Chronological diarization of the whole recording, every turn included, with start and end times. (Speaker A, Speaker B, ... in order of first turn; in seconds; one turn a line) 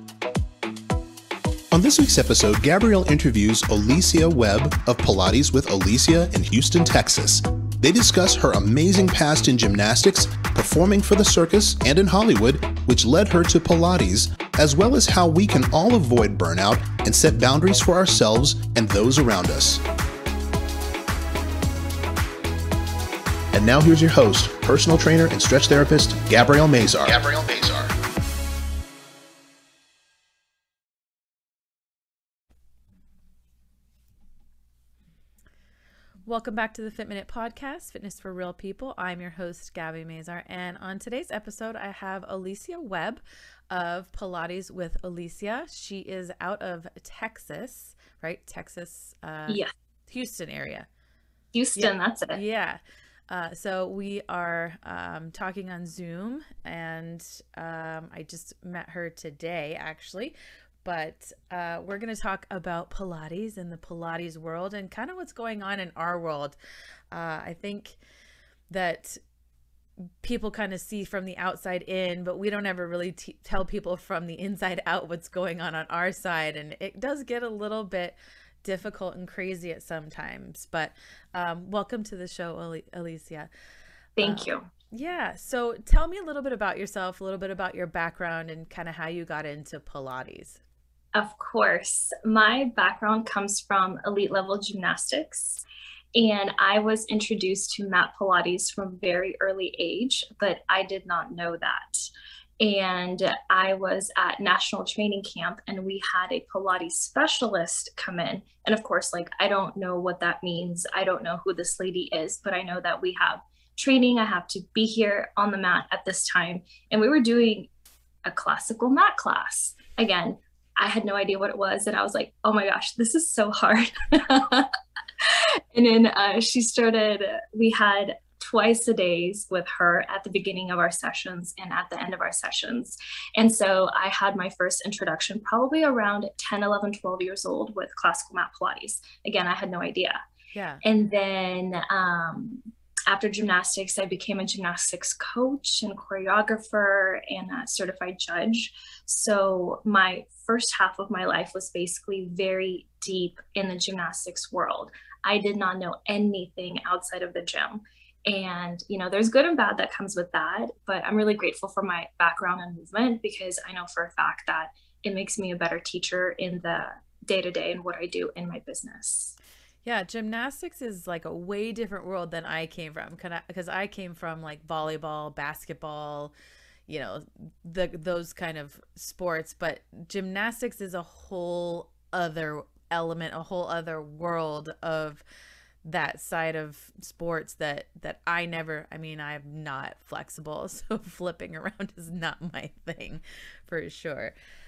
Speaker A: 1.7-19.8
Speaker A: 23.5-27.9
Speaker B: 36.2-50.9
Speaker C: 51.5-52.4
Speaker B: 51.8-66.6
Speaker B: 67.1-68.0
Speaker B: 68.7-69.2
Speaker B: 70.2-83.5
Speaker C: 84.2-84.7
Speaker B: 84.2-90.6
Speaker C: 91.2-95.6
Speaker C: 96.2-102.1
Speaker C: 102.6-117.7
Speaker C: 118.3-140.2
Speaker B: 140.5-140.8
Speaker C: 140.8-169.4
Speaker B: 169.8-176.3
Speaker B: 176.9-185.2
Speaker B: 185.8-194.3